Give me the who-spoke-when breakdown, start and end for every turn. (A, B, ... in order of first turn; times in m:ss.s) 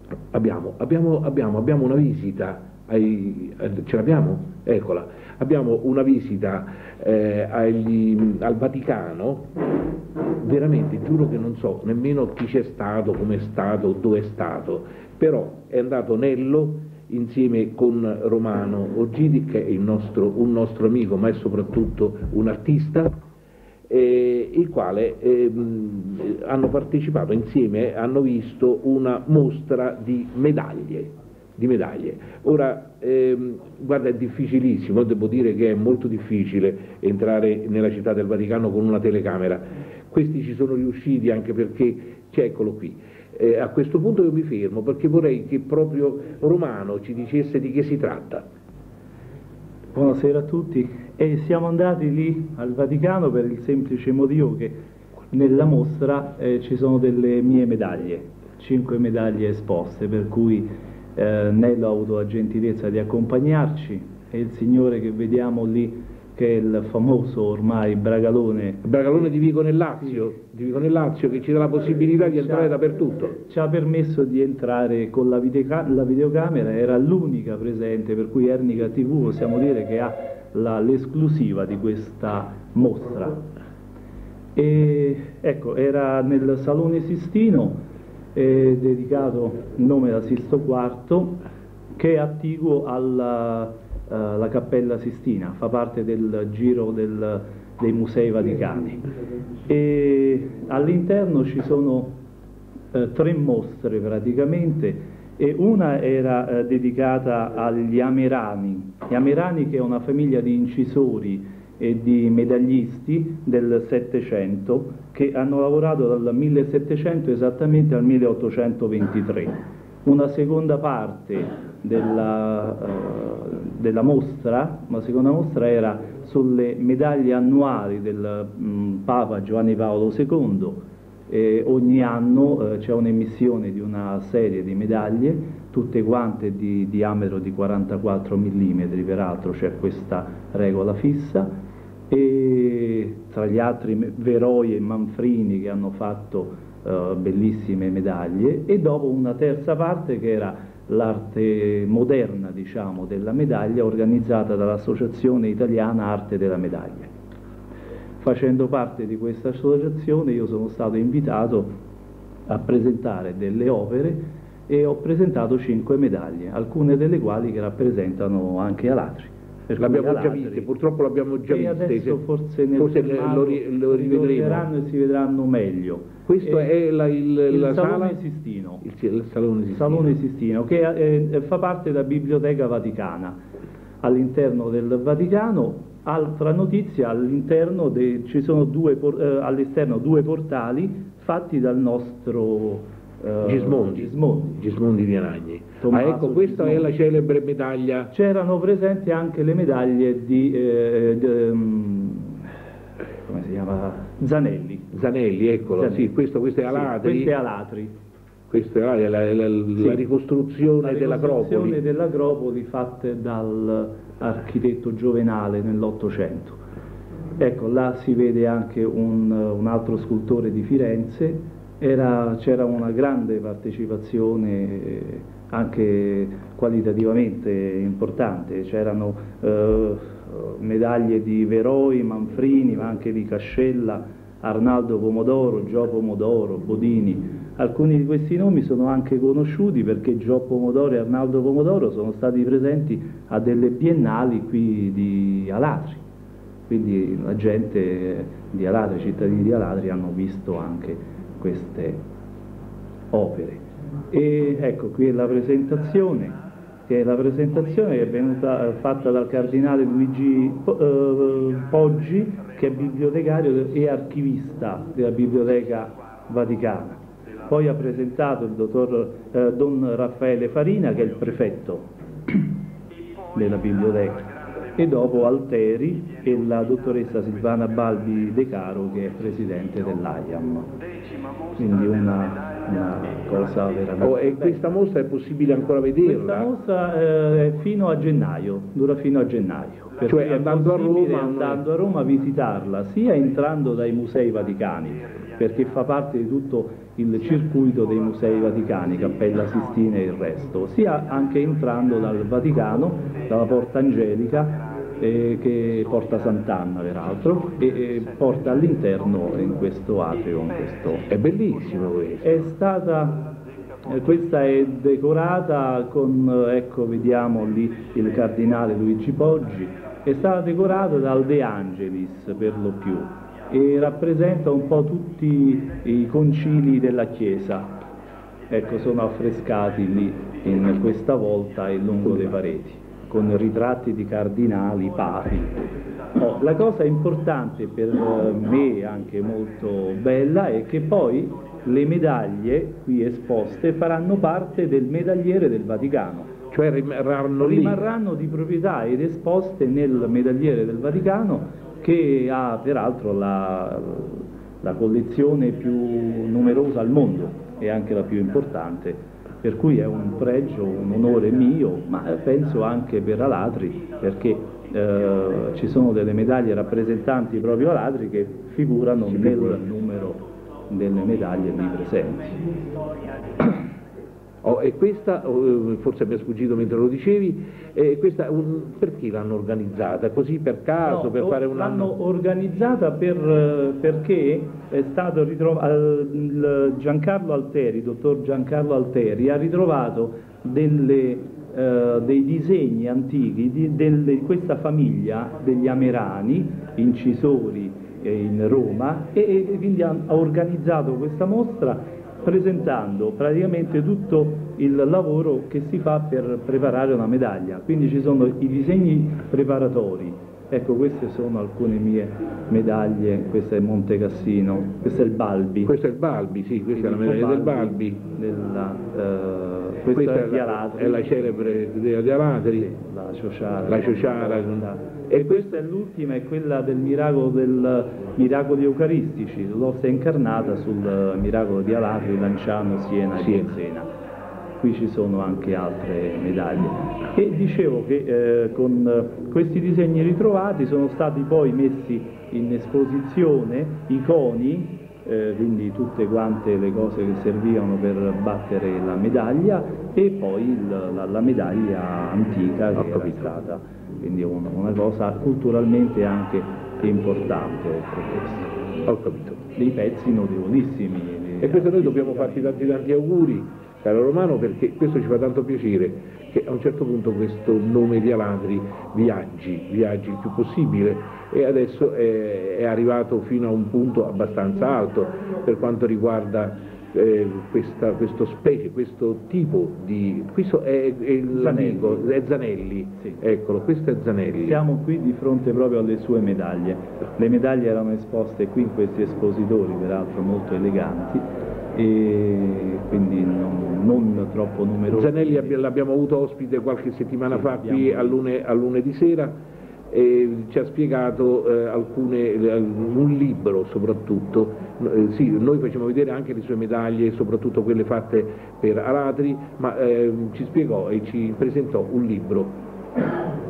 0:00.3-0:09.4 A
0:10.4-0:23.2 A
0:23.9-0:48.4 A
0:49.9-0:54.7 B
0:55.3-1:08.9 B
1:08.8-1:13.4 A
1:12.2-1:12.8 B
1:13.4-1:23.4 B
1:24.6-1:27.8 B
1:28.3-1:31.4 B
1:32.0-1:39.0 B
1:39.7-1:42.2 B
1:42.9-2:21.5 B
2:22.1-2:37.1 B
2:38.2-2:41.7 B
2:42.5-2:50.7 B
2:49.8-2:52.2 A
2:51.5-2:56.7 B
2:52.8-2:54.7 A
2:56.3-2:58.2 A
2:57.5-2:58.8 B
2:58.8-3:00.1 A
2:59.7-3:03.4 B
3:04.0-3:14.6 B
3:13.4-3:18.1 A
3:15.8-3:16.9 B
3:18.1-3:22.5 B
3:23.2-3:24.9 B
3:24.9-3:27.3 A
3:25.7-3:27.9 B
3:28.5-3:31.8 A
3:30.8-3:36.6 B
3:37.4-4:06.0 B
4:06.7-4:12.0 B
4:13.1-4:32.4 B
4:33.3-4:40.7 B
4:41.6-4:44.6 B
4:44.0-4:46.5 A
4:46.0-5:11.1 B
4:50.1-4:51.6 A
5:11.1-5:12.4 A
5:12.2-5:13.2 B
5:13.9-5:27.7 B
5:28.5-5:35.6 B
5:36.2-5:46.3 B
5:46.5-5:47.9 A
5:47.4-6:12.4 B
6:09.1-6:09.6 A
6:14.4-6:21.9 A
6:20.8-6:55.7 B
6:55.6-6:58.0 A
6:56.7-7:01.7 B
6:59.9-7:02.7 A
7:02.6-7:13.9 B
7:03.7-7:05.6 A
7:13.1-7:13.6 A
7:14.6-7:38.5 B
7:32.7-7:33.3 A
7:38.8-7:39.4 A
7:39.6-7:42.7 B
7:41.4-8:04.6 A
8:01.3-8:02.1 B
8:04.4-8:15.6 B
8:14.9-8:19.3 A
8:17.3-8:18.2 B
8:19.9-8:32.5 A